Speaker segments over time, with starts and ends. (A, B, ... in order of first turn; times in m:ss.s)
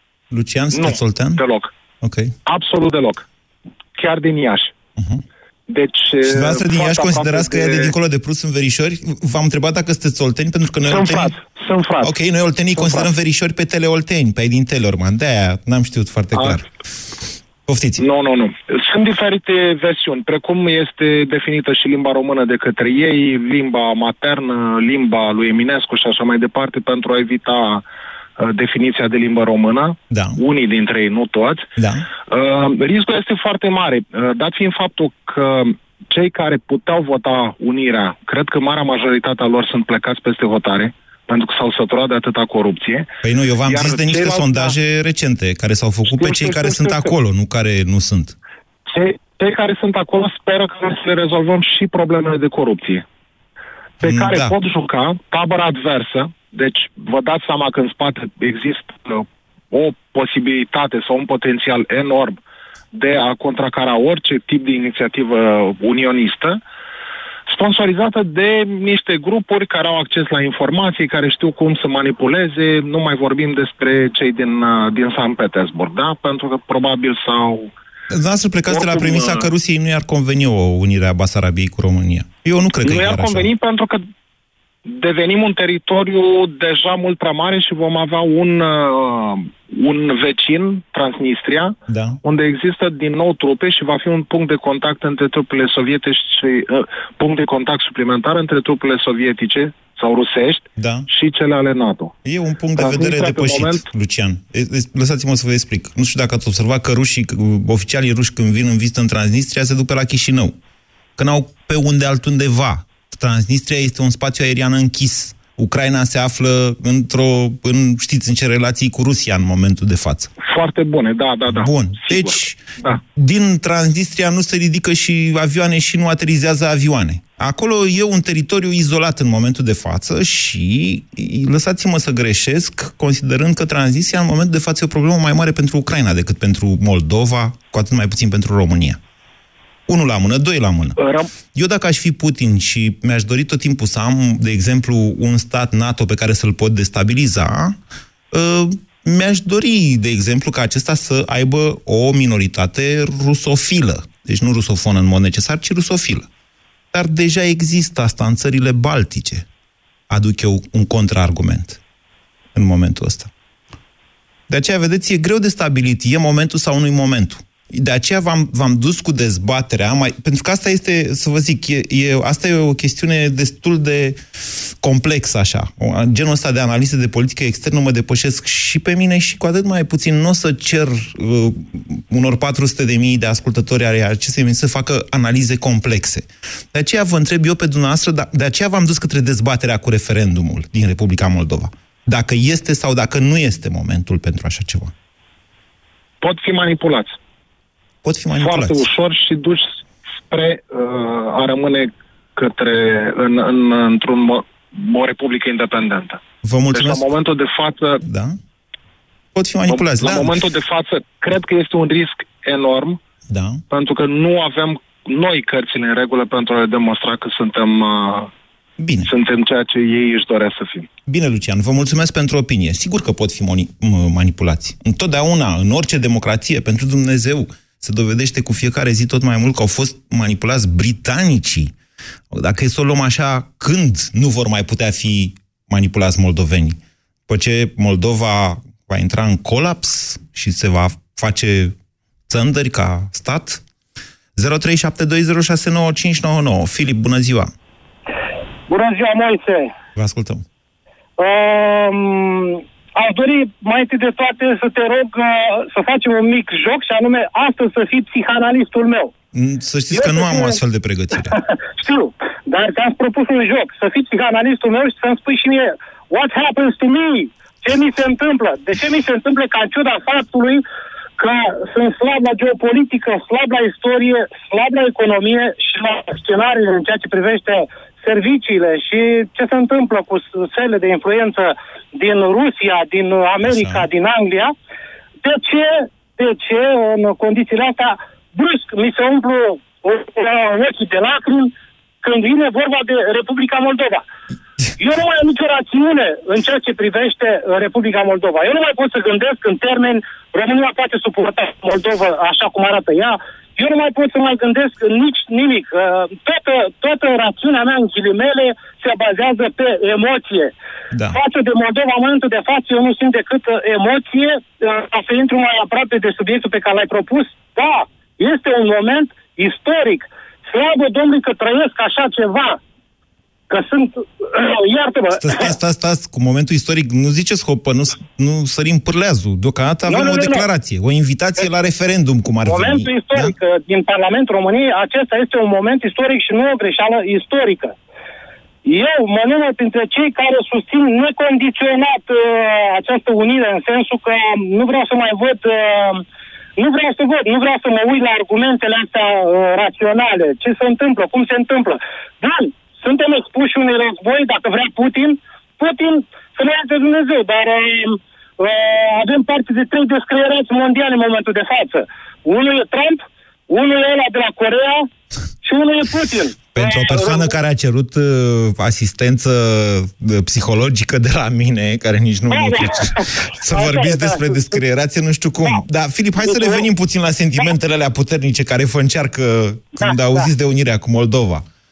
0:00.3-0:01.4 A
0:00.7-0:01.7 B
0:02.0-0:02.3 A
0:02.5-0:03.2 B
0:04.0-0:04.7 B
0:05.0-0:05.2 A
0:05.7-0:07.9 B
0:06.2-0:11.4 A
0:10.9-0:12.1 B
0:12.0-0:16.6 A
0:12.8-0:13.1 B
0:16.3-0:16.6 B
0:17.7-0:18.0 A
0:18.0-0:27.8 B
0:28.4-0:31.7 B
0:30.1-0:30.4 A
0:31.8-0:32.1 A
0:32.3-0:43.1 B
0:43.2-0:48.4 A
0:43.7-0:44.7 B
0:46.1-0:47.1 B
0:48.9-0:53.0 B
0:54.0-0:54.5 A
0:54.0-1:02.4 B
1:02.9-1:06.6 B
1:07.5-1:17.7 B
1:18.1-1:23.5 A
1:18.7-1:19.5 B
1:22.8-1:24.0 B
1:24.8-1:42.1 B
1:31.9-1:32.2 A
1:40.8-1:41.1 A
1:42.2-1:50.6 A
1:42.8-1:43.8 B
1:51.2-2:00.3 A
2:00.4-2:03.0 B
2:01.5-2:19.0 A
2:19.9-2:21.0 A
2:21.5-2:27.8 A
2:28.3-2:36.3 A
2:36.9-2:39.4 A
2:40.1-2:41.8 A
2:42.5-2:43.3 A
2:44.5-2:54.2 A
2:54.8-3:14.9 A
3:16.2-3:17.2 B
3:18.0-3:18.9 A
3:18.4-3:26.2 B
3:26.4-3:27.1 A
3:26.7-3:28.0 B
3:28.0-3:28.4 A
3:29.3-3:30.3 A
3:29.7-3:33.0 B
3:33.3-3:33.6 A
3:33.7-3:38.3 B
3:38.8-3:39.1 A
3:39.0-3:40.9 B
3:41.0-3:51.7 A
3:52.3-4:01.7 A
4:02.3-4:03.6 A
4:04.4-4:07.5 A
4:08.7-4:09.7 C
4:09.9-4:10.4 A
4:11.2-4:19.1 C
4:19.3-4:21.4 A
4:19.9-4:20.6 C
4:21.7-4:30.6 C
4:31.2-4:44.5 C
4:43.4-4:43.8 A
4:45.2-4:54.0 C
4:54.8-5:10.5 C
5:10.9-5:11.2 A
5:11.1-5:22.6 C
5:23.5-5:25.5 C
5:25.1-5:33.3 A
5:29.9-5:30.4 C
5:32.4-5:37.7 C
5:38.6-5:46.0 C
5:46.6-6:04.9 C
6:05.4-6:07.3 C
6:06.5-6:21.4 A
6:12.3-6:12.8 C
6:13.5-6:14.6 C
6:16.2-6:16.6 C
6:19.8-6:20.3 C